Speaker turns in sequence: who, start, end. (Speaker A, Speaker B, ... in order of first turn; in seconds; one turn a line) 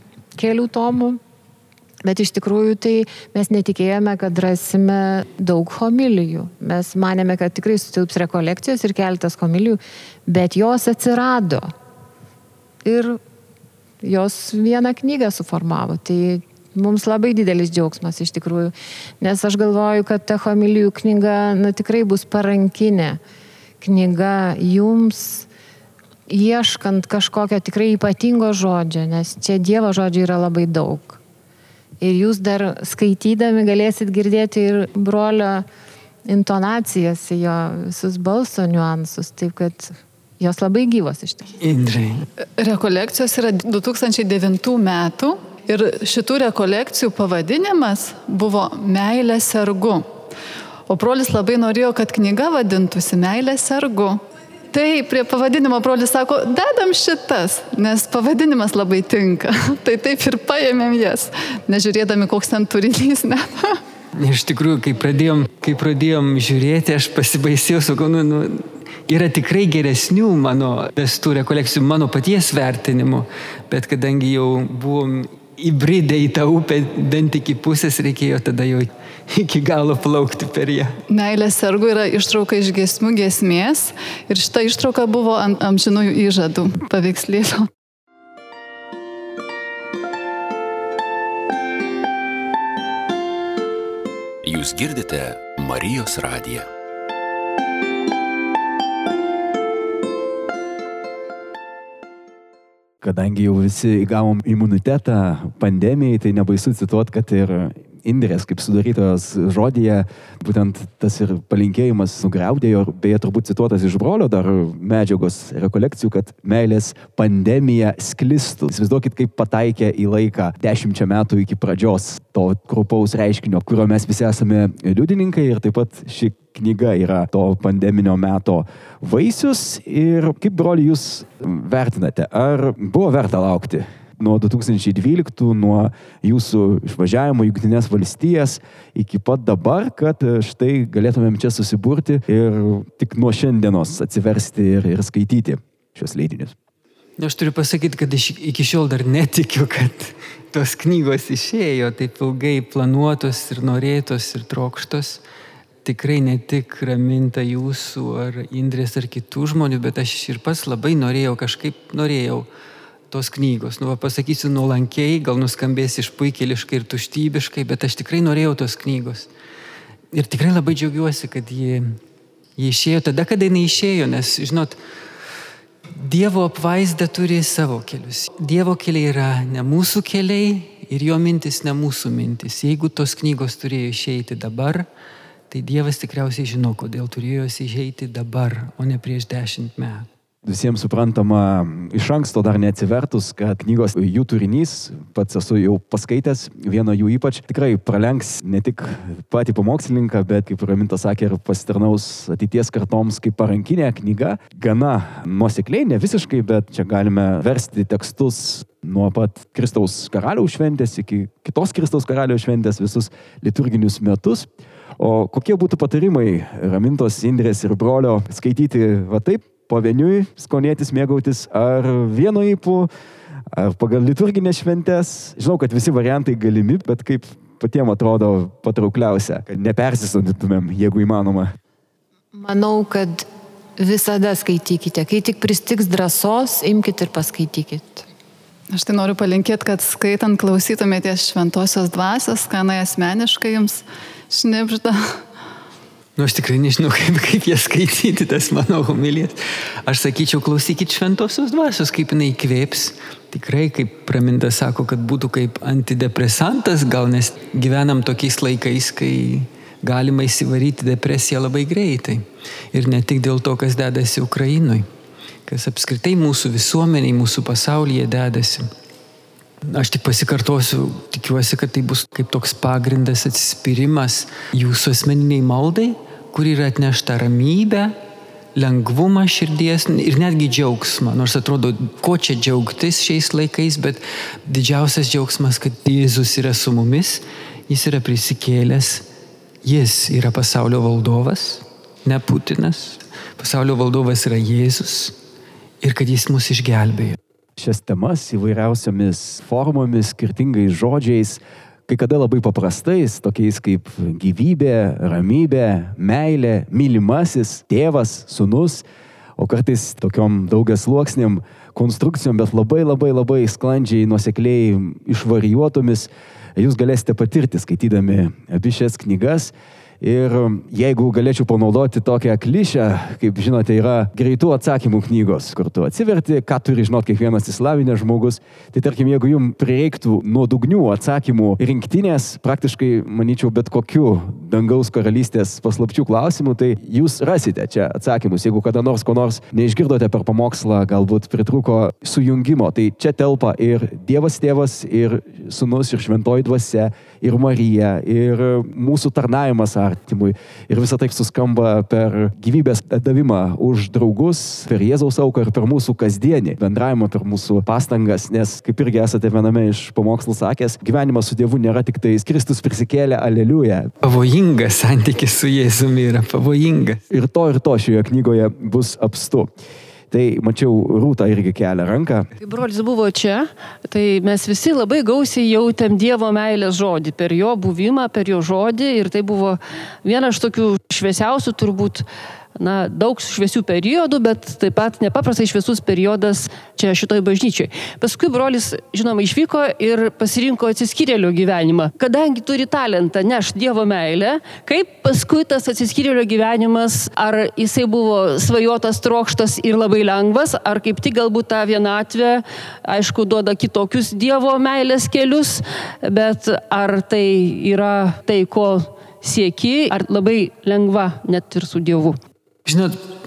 Speaker A: 0.4-1.2
Speaker A: 2.0-11.7
Speaker A: 12.8-13.2
Speaker A: 14.0-23.2
Speaker A: 23.8-25.5
Speaker A: 26.3-31.2
Speaker A: 32.0-35.6
Speaker A: 36.3-41.5
Speaker B: 41.6-42.2
Speaker C: 42.6-50.1
Speaker C: 50.9-54.2
Speaker C: 54.7-63.8
Speaker B: 64.2-81.0
Speaker C: 81.1-87.7
Speaker D: 94.4-96.7
Speaker E: 103.0-146.6
Speaker B: 147.2-155.2
Speaker B: 155.8-162.5
Speaker B: 163.1-169.3
Speaker B: 170.1-172.0
Speaker B: 172.6-174.8
Speaker B: 175.9-184.9
Speaker B: 185.5-190.1
Speaker E: 190.4-222.9
Speaker E: 223.5-231.6
Speaker A: 232.3-233.3
Speaker A: 233.8-238.1
Speaker C: 238.7-245.2
Speaker B: 246.2-264.9
Speaker B: 265.5-268.7
Speaker B: 269.7-278.0
Speaker B: 278.6-289.1
Speaker B: 289.6-295.2
Speaker B: 295.8-297.2
Speaker E: 297.6-308.9
Speaker E: 309.4-363.9
Speaker B: 364.0-367.0
Speaker E: 367.1-369.5
Speaker E: 370.1-372.3
Speaker F: 372.4-382.1
Speaker F: 382.6-412.2
Speaker B: 412.6-413.0